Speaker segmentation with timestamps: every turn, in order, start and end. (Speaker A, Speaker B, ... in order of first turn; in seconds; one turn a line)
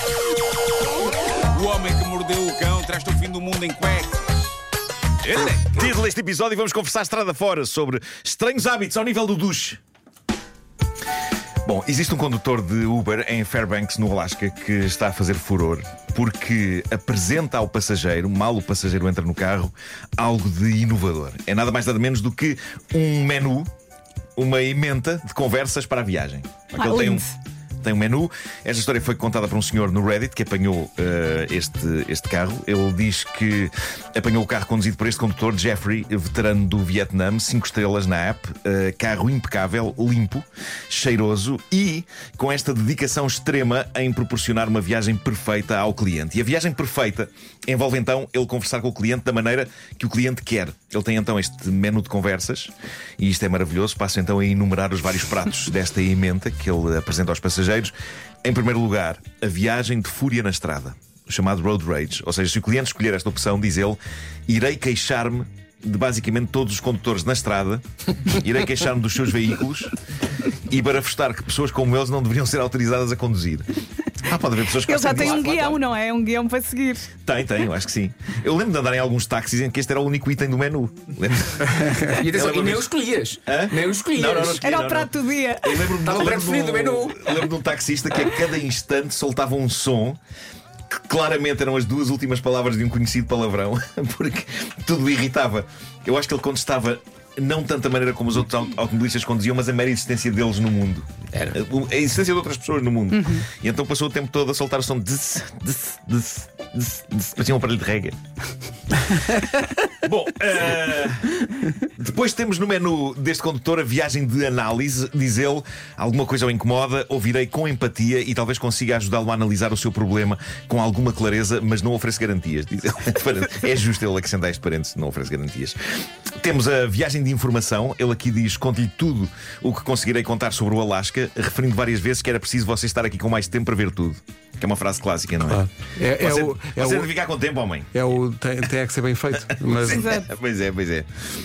Speaker A: 1.4-4.6
Speaker A: 5.2-5.9
Speaker B: 5.7-9.8
Speaker B: 11.7-23.7
Speaker B: 24.4-27.2
Speaker C: 26.8-27.3
Speaker B: 27.8-57.9
Speaker B: 58.4-70.0
Speaker B: 70.5-73.7
Speaker B: 74.2-75.8
Speaker C: 74.8-77.1
Speaker D: 75.2-75.5
Speaker B: 77.2-82.9
Speaker E: 81.8-82.1
Speaker D: 82.1-84.6
Speaker B: 83.5-90.2
Speaker C: 84.6-85.8
Speaker D: 86.0-87.4
Speaker B: 90.9-108.2
Speaker D: 101.3-101.6
Speaker C: 103.2-103.5
Speaker B: 110.0-137.9
Speaker E: 135.5-137.1
Speaker E: 137.9-140.1
Speaker B: 139.6-141.1
Speaker C: 139.8-140.3